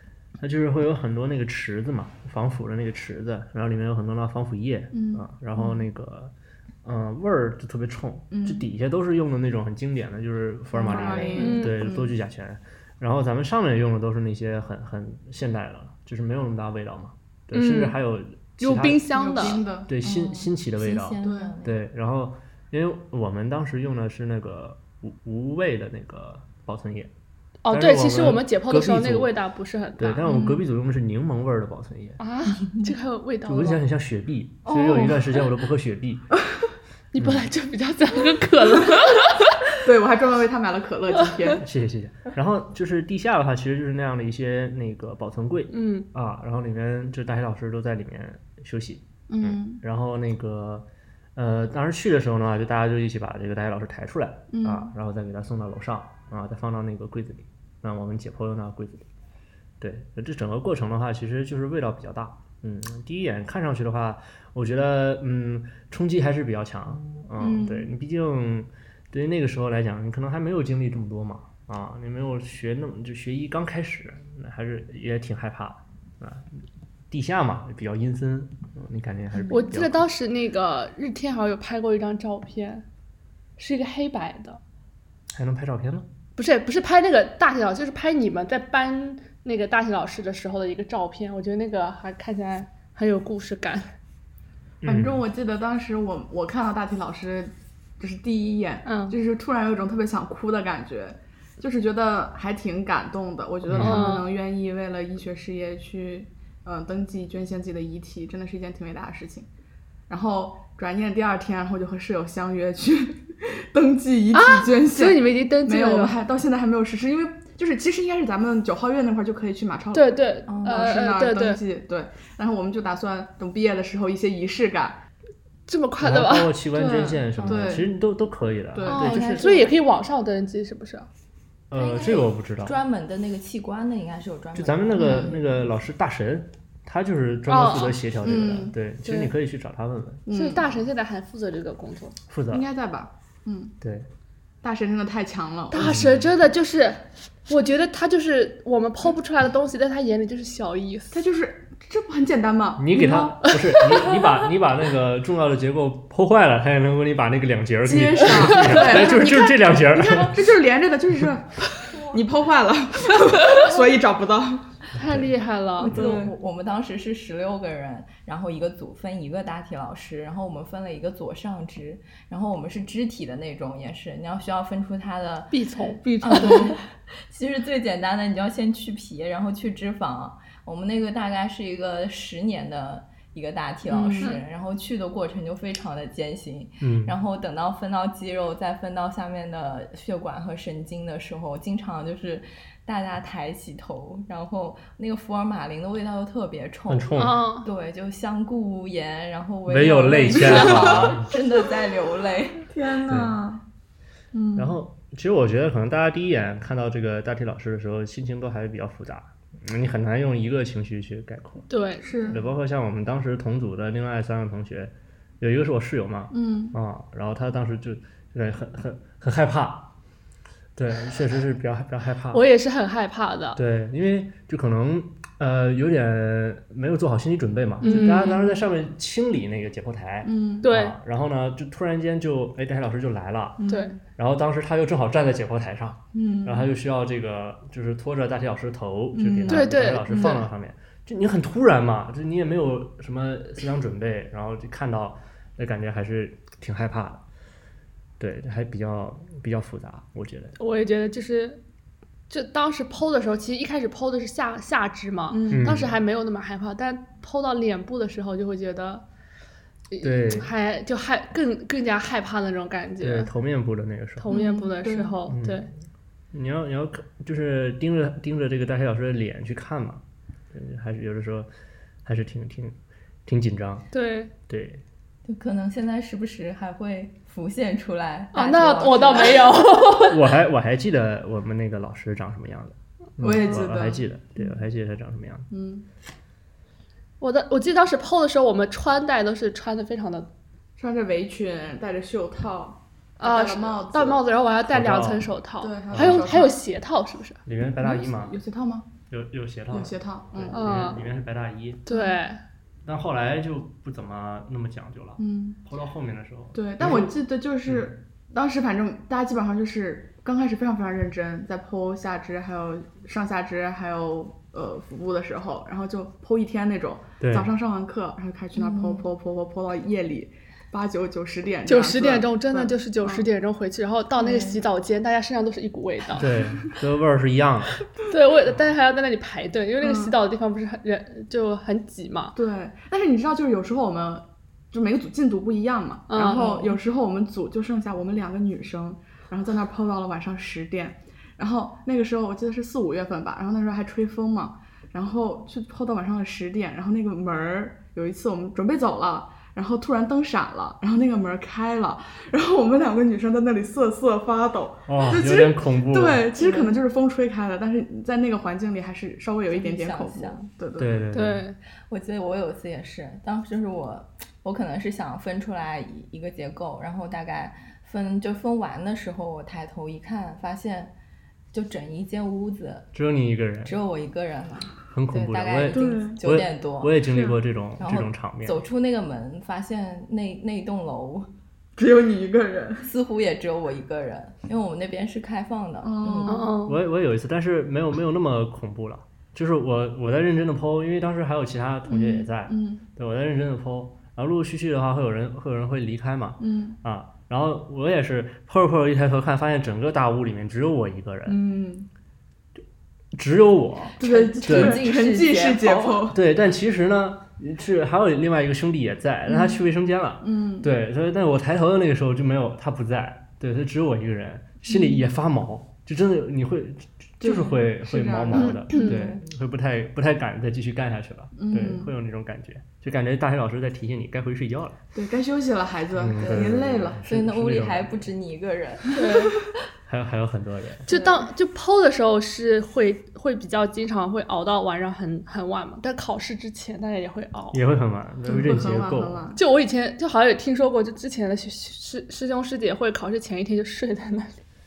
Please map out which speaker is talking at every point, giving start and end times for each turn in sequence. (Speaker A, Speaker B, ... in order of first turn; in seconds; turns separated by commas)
Speaker A: 0.4-6.3, Speaker B: 4.9-5.7, Speaker A: 6.8-27.1, Speaker B: 8.3-8.7, Speaker C: 10.7-11.6, Speaker B: 10.7-12.1, Speaker D: 11.4-11.8, Speaker D: 17.5-18.0, Speaker D: 18.6-19.6, Speaker B: 19.1-20.4, Speaker C: 20.8-21.8, Speaker B: 21.2-21.5, Speaker D: 27.6-30.3, Speaker A: 27.7-29.3, Speaker A: 30.0-32.2, Speaker B: 30.2-30.6, Speaker D: 32.2-33.8, Speaker A: 33.5-36.3, Speaker B: 34.6-35.5, Speaker D: 37.1-39.6, Speaker A: 37.2-37.5, Speaker B: 39.8-41.6, Speaker A: 41.6-59.0, Speaker D: 45.7-46.0, Speaker B: 49.3-49.8, Speaker B: 54.5-54.9, Speaker A: 59.8-80.0, Speaker B: 67.4-67.9, Speaker D: 79.5-82.8, Speaker D: 83.6-84.6, Speaker A: 85.3-86.0, Speaker D: 86.4-93.9, Speaker A: 94.8-95.2, Speaker B: 94.8-109.5, Speaker D: 98.8-99.1, Speaker A: 103.7-104.2, Speaker D: 103.8-104.3, Speaker B: 110.1-125.0, Speaker D: 114.3-116.1, Speaker D: 119.9-121.6, Speaker C: 120.5-121.0, Speaker D: 125.7-126.5, Speaker A: 126.0-129.6, Speaker B: 126.7-127.9, Speaker C: 127.4-127.8, Speaker B: 128.7-129.5, Speaker C: 128.8-129.6, Speaker D: 129.2-131.1, Speaker A: 131.7-132.8, Speaker C: 131.7-135.4, Speaker A: 134.5-140.2, Speaker B: 135.0-135.3, Speaker D: 137.5-138.0, Speaker B: 138.2-138.7, Speaker D: 139.0-139.3, Speaker B: 140.2-140.7, Speaker D: 140.3-142.2, Speaker A: 142.3-142.7, Speaker B: 142.5-143.7, Speaker A: 143.8-144.1, Speaker B: 144.6-145.9, Speaker D: 145.7-151.2, Speaker A: 145.7-146.3, Speaker B: 151.1-153.3, Speaker A: 152.8-160.5, Speaker D: 152.9-154.2, Speaker B: 157.8-164.7, Speaker D: 158.5-159.3, Speaker A: 164.9-165.3, Speaker D: 164.9-166.0, Speaker C: 165.8-202.7, Speaker B: 165.8-166.3, Speaker D: 175.5-176.8, Speaker B: 176.0-176.7, Speaker B: 183.9-184.3, Speaker D: 184.1-184.4, Speaker A: 186.8-187.1, Speaker A: 196.9-197.4, Speaker D: 197.2-197.7, Speaker A: 199.7-201.3, Speaker B: 200.4-201.0, Speaker B: 202.7-203.6, Speaker A: 203.1-203.3, Speaker B: 204.3-204.7, Speaker A: 204.5-211.7, Speaker D: 211.7-212.1, Speaker B: 212.0-212.4, Speaker A: 212.3-219.9, Speaker B: 216.3-216.7, Speaker A: 220.8-222.4, Speaker D: 222.3-223.6, Speaker A: 223.6-233.6, Speaker D: 227.8-228.4, Speaker B: 227.8-228.6, Speaker B: 230.2-230.7, Speaker D: 230.6-230.9, Speaker B: 233.6-234.0, Speaker D: 233.7-234.0, Speaker A: 234.1-247.2, Speaker B: 236.1-236.7, Speaker B: 239.1-240.4, Speaker D: 239.5-240.4, Speaker A: 248.2-250.6, Speaker D: 250.6-251.6, Speaker D: 252.3-259.0, Speaker B: 255.3-255.8, Speaker A: 255.5-256.0, Speaker D: 259.9-263.3, Speaker A: 260.0-260.5, Speaker A: 263.0-264.3, Speaker D: 264.2-265.7, Speaker B: 264.3-265.1, Speaker A: 265.3-265.7, Speaker A: 266.3-270.0, Speaker A: 270.5-271.5, Speaker A: 272.0-272.7, Speaker A: 273.2-273.9, Speaker D: 273.9-274.3, Speaker A: 274.5-274.8, Speaker C: 275.2-279.6, Speaker D: 278.3-280.2, Speaker A: 280.1-285.5, Speaker B: 283.2-284.0, Speaker B: 285.5-285.9, Speaker D: 287.2-290.3, Speaker B: 290.8-294.2, Speaker D: 293.2-297.4, Speaker A: 294.7-295.3, Speaker B: 295.6-296.5, Speaker A: 295.9-296.4, Speaker A: 297.4-298.4, Speaker B: 297.6-298.9, Speaker A: 299.1-301.8, Speaker B: 299.7-300.6, Speaker D: 300.5-301.1, Speaker D: 301.9-302.4, Speaker B: 301.9-302.2, Speaker A: 302.9-307.9, Speaker B: 305.2-305.6, Speaker B: 306.5-323.2, Speaker A: 317.2-317.5, Speaker C: 318.5-319.1, Speaker D: 321.6-326.4, Speaker C: 324.2-324.6, Speaker A: 326.2-327.9, Speaker D: 328.1-332.4, Speaker B: 329.8-330.1, Speaker B: 332.3-361.0, Speaker D: 336.1-336.8, Speaker A: 354.9-356.3, Speaker C: 356.4-356.8, Speaker C: 359.5-360.5, Speaker A: 360.8-361.4, Speaker D: 361.1-361.6, Speaker C: 361.9-370.9, Speaker C: 371.5-372.9, Speaker A: 372.9-373.8, Speaker C: 373.6-377.2, Speaker A: 374.9-378.6, Speaker B: 375.7-376.2, Speaker C: 377.8-381.3, Speaker B: 381.8-382.9, Speaker C: 382.8-386.5, Speaker B: 385.8-386.5, Speaker D: 386.3-386.8, Speaker A: 386.6-401.4, Speaker B: 391.9-392.8, Speaker B: 396.4-396.8, Speaker B: 401.2-401.9, Speaker A: 403.1-404.8, Speaker C: 404.0-406.1, Speaker B: 404.0-406.1, Speaker A: 406.1-424.8, Speaker B: 409.2-409.6, Speaker B: 410.2-410.7, Speaker B: 414.6-415.1, Speaker B: 417.2-419.1, Speaker D: 418.4-419.0, Speaker B: 421.4-421.9, Speaker B: 424.9-427.0, Speaker A: 425.9-428.1, Speaker C: 427.0-429.1, Speaker D: 428.9-429.3, Speaker A: 429.9-430.9, Speaker D: 430.9-437.6, Speaker C: 430.9-431.3, Speaker A: 437.5-439.3, Speaker B: 438.2-439.4, Speaker D: 439.3-444.3